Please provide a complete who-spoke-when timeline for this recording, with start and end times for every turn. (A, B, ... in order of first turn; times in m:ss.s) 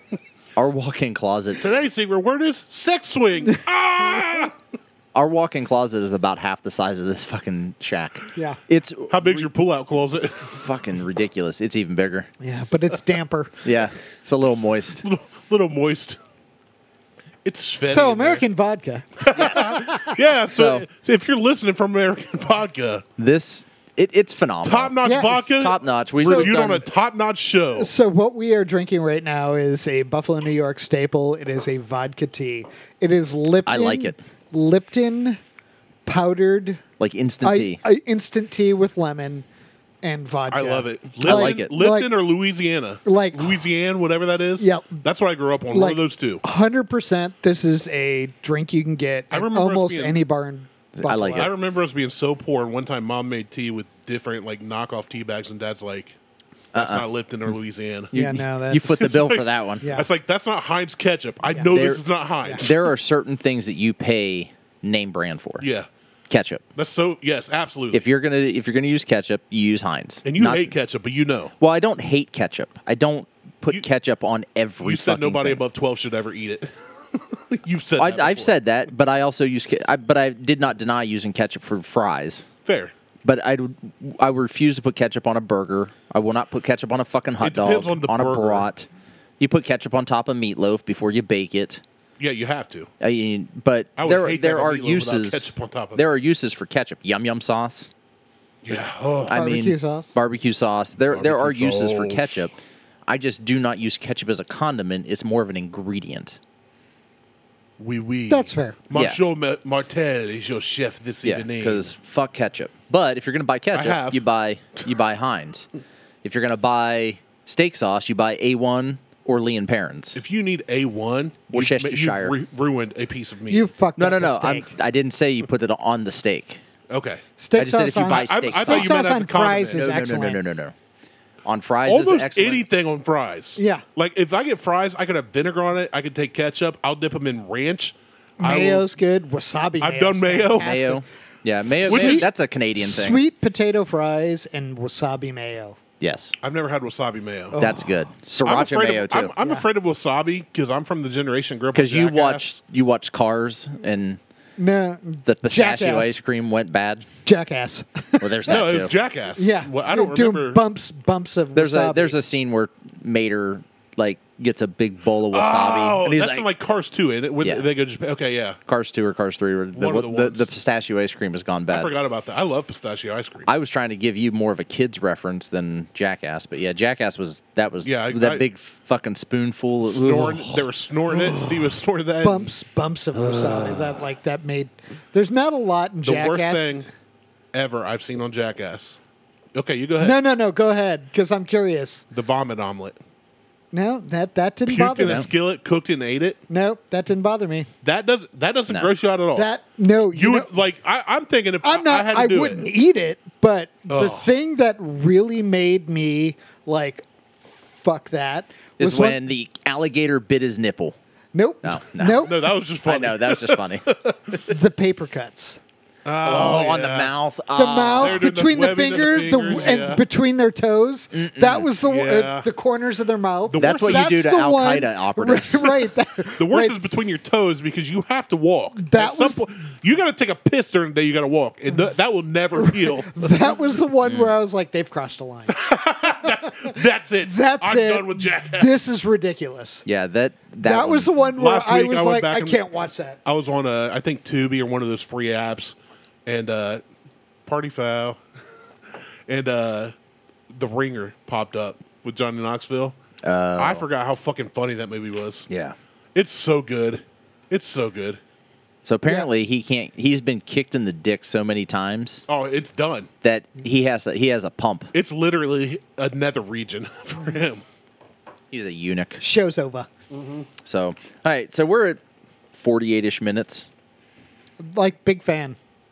0:00.6-0:01.6 A
0:01.6-0:04.6 B
0:05.1-0:09.5 A
0:08.4-0:08.6 C
0:09.1-0:10.5 B
0:10.4-0:12.3 A
0:12.4-0:13.6 C
0:13.6-0:15.0 A
0:15.0-0:16.2 B
0:17.4-0:18.4 B
0:17.9-0:20.2 C
0:19.2-0:23.0 B
0:20.5-0:20.9 A
0:23.2-0:24.9 A
0:24.6-0:27.9 B
0:25.0-0:25.5 C
0:25.5-0:26.8 A
0:26.2-0:26.6 C
0:27.8-0:35.4 C
0:33.7-0:34.2 A
0:36.1-0:36.8 C
0:37.0-0:37.8 A
0:37.4-0:39.4 C
0:40.0-0:42.1 C
0:40.5-0:46.4 B
0:41.2-0:41.7 A
0:43.1-0:43.5 C
0:44.6-0:45.0 C
0:45.7-0:51.5 C
0:49.3-0:50.2 B
0:51.0-0:51.5 A
0:51.4-0:56.2 B
0:56.7-0:57.1 A
0:56.8-0:58.1 B
0:58.1-0:59.9 A
0:58.1-0:59.1 C
0:59.0-1:02.9 B
0:59.8-1:00.1 C
1:01.7-1:02.0 A
1:02.6-1:05.7 A
1:05.6-1:05.9 B
1:06.3-1:06.6 A
1:06.8-1:08.0 B
1:07.9-1:10.7 A
1:10.2-1:11.5 B
1:11.6-1:15.6 A
1:14.8-1:18.6 B
1:18.0-1:22.5 A
1:22.6-1:22.9 B
1:23.2-1:28.9 A
1:27.4-1:28.7 B
1:29.4-1:31.8 A
1:32.2-1:32.9 B
1:33.0-1:37.9 A
1:34.0-1:36.1 B
1:38.6-1:39.4 B
1:39.3-1:42.6 A
1:39.3-1:40.1 C
1:41.1-1:42.5 B
1:43.1-1:46.4 A
1:47.8-1:51.9 B
1:48.3-1:48.8 C
1:48.9-1:49.2 A
1:51.2-1:55.7 A
1:53.7-1:54.2 B
1:56.2-2:00.2 A
2:00.2-2:03.7 B
2:01.5-2:02.4 A
2:03.5-2:04.7 C
2:04.0-2:06.6 A
2:06.9-2:07.2 B
2:07.4-2:10.4 C
2:07.6-2:09.0 A
2:08.0-2:09.9 B
2:09.7-2:10.7 A
2:11.4-2:12.6 A
2:11.9-2:18.9 B
2:13.6-2:13.8 C
2:18.4-2:21.0 C
2:19.8-2:20.8 B
2:20.6-2:23.2 A
2:21.8-2:22.3 C
2:21.9-2:22.3 B
2:22.8-2:25.8 C
2:26.0-2:26.4 A
2:26.4-2:27.6 B
2:27.6-2:27.9 C
2:27.6-2:29.3 A
2:28.4-2:32.4 B
2:31.7-2:34.2 A
2:34.6-2:36.2 C
2:35.3-2:37.1 A
2:37.2-2:38.7 C
2:38.2-2:38.9 A
2:38.5-2:40.6 B
2:39.4-2:42.2 C
2:41.6-2:46.5 A
2:45.3-2:48.6 B
2:47.4-2:47.7 A
2:48.7-2:51.9 A
2:49.8-2:50.5 B
2:51.7-2:53.5 B
2:53.5-3:01.7 A
2:57.8-2:58.5 B
2:59.8-3:02.5 B
3:02.2-3:06.8 C
3:03.2-3:04.0 A
3:06.0-3:06.9 B
3:07.5-3:09.0 B
3:09.5-3:10.2 B
3:10.0-3:12.1 C
3:12.1-3:13.0 B
3:13.7-3:15.3 C
3:14.7-3:16.4 B
3:15.0-3:15.3 A
3:16.5-3:17.7 C
3:17.8-3:19.5 B
3:19.4-3:20.5 C
3:20.1-3:22.6 B
3:21.6-3:29.2 C
3:23.9-3:24.3 B
3:28.8-3:31.0 A
3:31.3-3:32.5 C
3:31.6-3:33.9 A
3:32.2-3:34.2 B
3:34.4-3:35.6 C
3:36.0-3:37.1 B
3:36.2-3:38.2 A
3:37.6-3:46.8 C
3:38.0-3:40.1 B
3:41.1-3:41.7 A
3:41.8-3:42.5 B
3:43.5-3:44.2 B
3:43.6-3:45.8 A
3:46.4-3:53.6 B
3:48.8-3:49.4 C
3:52.6-3:55.6 C
3:54.1-3:54.3 A
3:55.5-3:58.7 B
3:56.5-3:59.8 C
3:59.8-4:01.1 A
4:00.6-4:03.2 C
4:01.3-4:02.6 B
4:03.2-4:06.8 B
4:07.5-4:08.2 B
4:09.3-4:09.9 B
4:10.5-4:13.0 B
4:13.2-4:13.8 A
4:13.6-4:15.5 B
4:15.5-4:15.8 A
4:16.2-4:18.2 B
4:18.8-4:22.3 A
4:22.3-4:23.1 B
4:23.2-4:24.9 A
4:24.9-4:27.6 B
4:28.5-4:29.2 A
4:29.2-4:29.9 C
4:30.1-4:30.5 B
4:30.6-4:32.0 A
4:32.5-4:33.7 A
4:34.6-4:35.6 C